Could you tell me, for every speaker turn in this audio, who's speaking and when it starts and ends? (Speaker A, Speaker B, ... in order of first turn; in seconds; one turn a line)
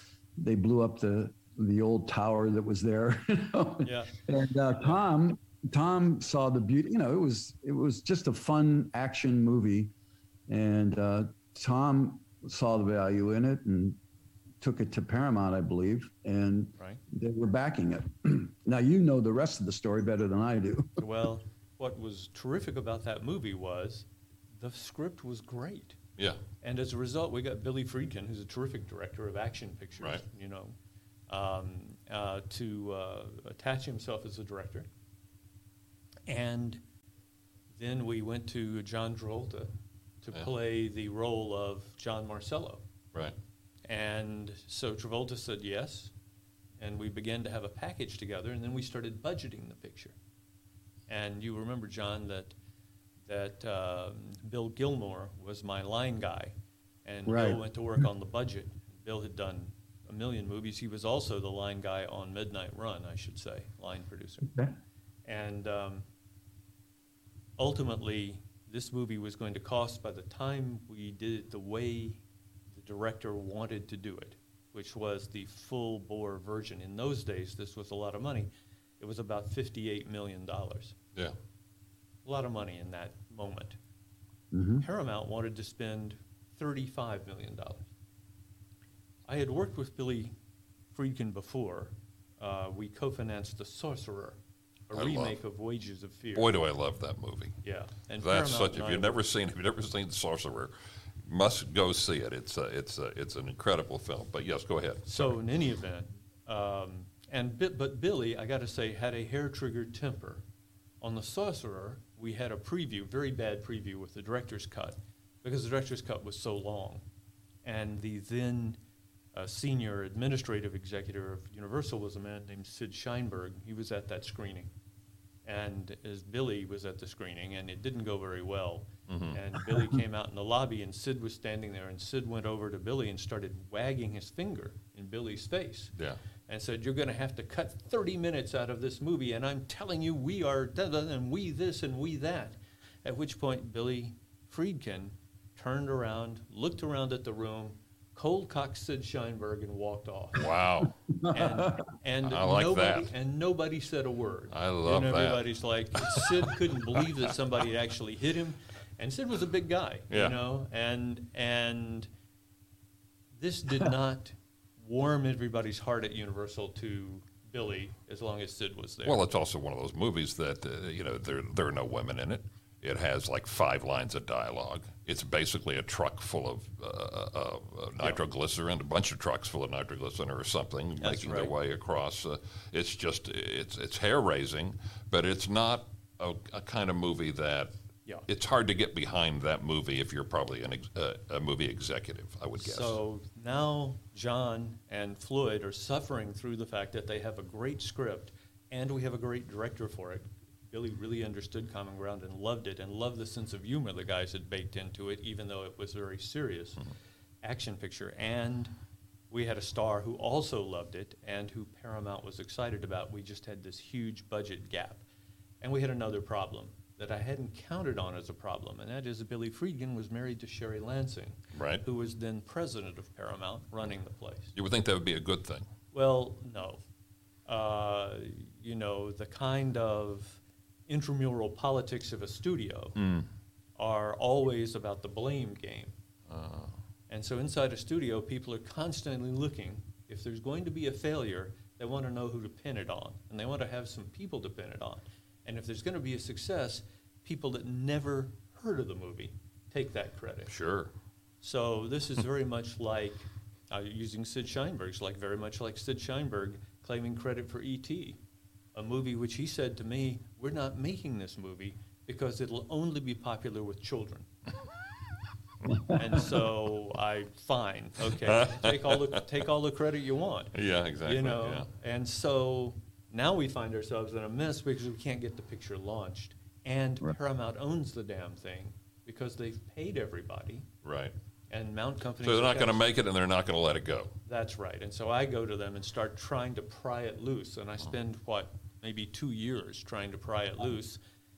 Speaker A: 0.4-9.9
Speaker B: 3.8-4.2
Speaker A: 10.5-14.0
Speaker A: 14.6-21.0
Speaker B: 21.0-24.1
Speaker B: 24.6-26.0
Speaker B: 26.6-30.7
Speaker B: 31.3-34.9
Speaker B: 36.3-36.8
Speaker B: 37.8-39.7
Speaker B: 40.2-42.8
Speaker B: 43.9-46.1
Speaker B: 46.8-50.1
Speaker B: 51.1-52.5
Speaker B: 53.3-56.5
Speaker B: 57.0-64.5
Speaker A: 57.3-57.6
Speaker A: 64.4-64.7
Speaker B: 65.3-66.0
Speaker B: 67.6-72.2
Speaker B: 72.7-81.0
Speaker B: 82.2-83.8
Speaker A: 84.5-84.8
Speaker B: 84.8-87.9
Speaker B: 89.3-90.3
Speaker B: 90.9-94.4
Speaker B: 94.9-96.5
Speaker C: 94.9-95.4
Speaker C: 96.3-97.6
Speaker B: 97.6-99.2
Speaker C: 98.2-100.7
Speaker C: 101.2-105.4
Speaker B: 105.0-110.4
Speaker B: 111.0-117.0
Speaker B: 117.6-118.8
Speaker B: 119.3-124.7
Speaker B: 125.5-135.9
Speaker C: 129.1-129.4
Speaker B: 136.5-150.5
Speaker C: 150.4-150.9
Speaker A: 151.1-151.8
Speaker B: 151.3-162.1
Speaker C: 152.2-153.1
Speaker C: 154.5-156.5
Speaker C: 160.1-160.3
Speaker B: 163.3-169.2
Speaker C: 169.0-187.7
Speaker B: 181.0-181.5
Speaker C: 188.3-193.0
Speaker B: 192.6-206.8
Speaker B: 207.4-208.7
Speaker B: 209.3-215.0
Speaker B: 215.6-224.5
Speaker C: 221.5-221.8
Speaker C: 224.5-225.7
Speaker B: 225.9-226.8
Speaker B: 227.5-233.0
Speaker C: 233.0-233.3
Speaker B: 233.8-235.9
Speaker C: 236.3-236.7
Speaker B: 237.1-250.5
Speaker C: 250.5-250.9
Speaker B: 251.4-258.2
Speaker B: 258.7-264.3
Speaker A: 265.7-265.9
Speaker B: 265.9-280.7
Speaker C: 268.2-269.2
Speaker C: 270.5-271.7
Speaker C: 280.8-281.1
Speaker B: 281.5-282.8
Speaker C: 282.2-284.2
Speaker B: 284.2-291.0